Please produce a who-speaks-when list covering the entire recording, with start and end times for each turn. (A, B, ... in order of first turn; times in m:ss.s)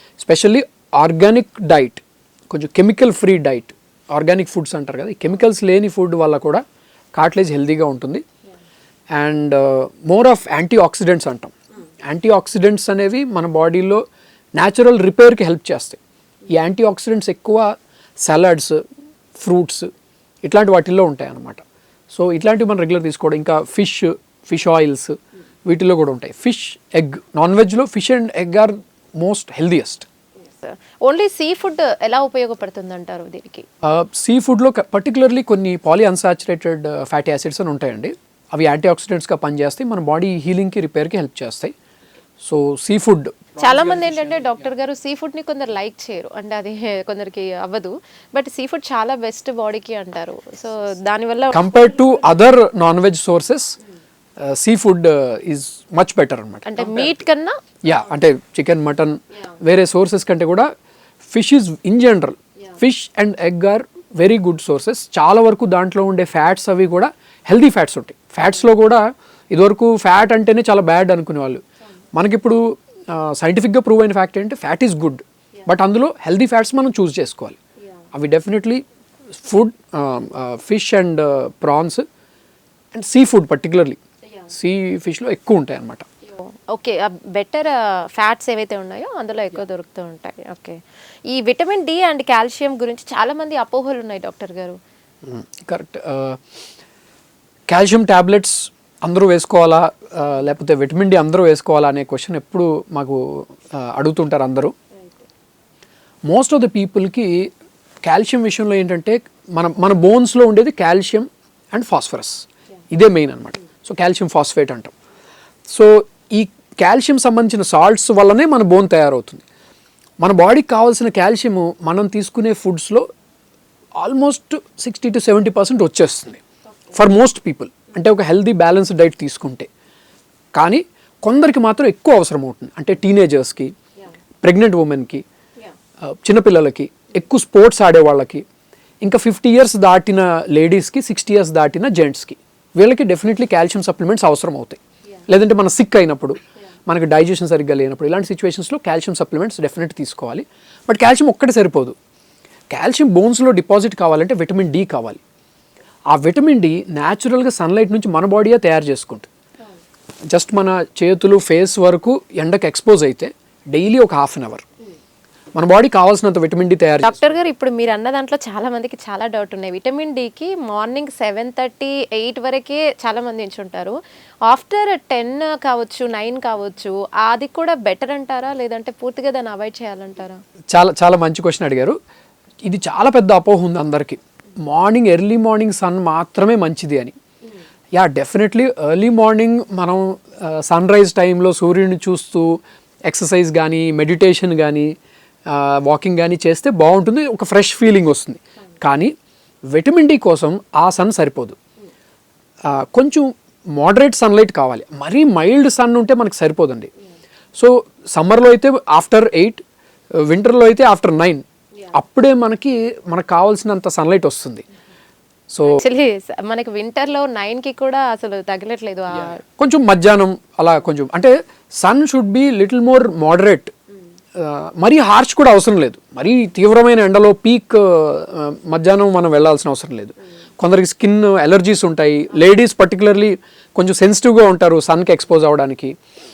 0:00.2-0:06.6 A
0:07.2-0:08.2 A
0:09.1-0:14.0 A
0:14.6-0:18.8 A
0:19.4-0:19.9 A
0:20.4-0:30.1 A
0:30.6-0:33.6 B
0:33.8-0:41.8 A
0:42.4-0:44.5 A
0:43.6-0:51.7 B
0:51.5-0:53.8 A
0:54.4-0:57.2 A
0:56.7-0:57.6 B
0:57.8-1:00.7 A
1:01.3-1:11.6 A
1:12.1-1:17.6 A
1:18.1-1:18.8 A
1:19.4-1:22.0 A
1:22.9-1:24.0 A
1:24.5-1:26.1 A
1:26.4-1:34.8 B
1:35.2-1:36.4 A
1:37.7-1:44.7 A
1:46.3-1:47.5 A
1:48.0-1:54.9 A
1:55.7-1:59.4 A
2:00.2-2:03.1 A
2:04.0-2:06.4 A
2:06.9-2:09.7 A
2:10.6-2:13.7 A
2:14.4-2:15.2 A
2:16.0-2:18.4 A
2:19.0-2:32.0 A
2:32.7-2:35.2 A
2:36.1-2:39.3 A
2:40.3-2:44.6 A
2:45.6-2:47.3 A
2:47.0-3:00.4 B
3:00.7-3:02.0 A
3:02.6-3:07.2 A
3:07.9-3:14.9 A
3:15.5-3:19.1 A
3:19.7-3:21.6 A
3:22.6-3:26.9 A
3:27.6-3:29.6 A
3:30.2-3:34.7 A
3:35.5-3:35.8 A
3:35.6-3:39.4 B
3:39.4-3:43.7 A
3:44.4-3:56.0 A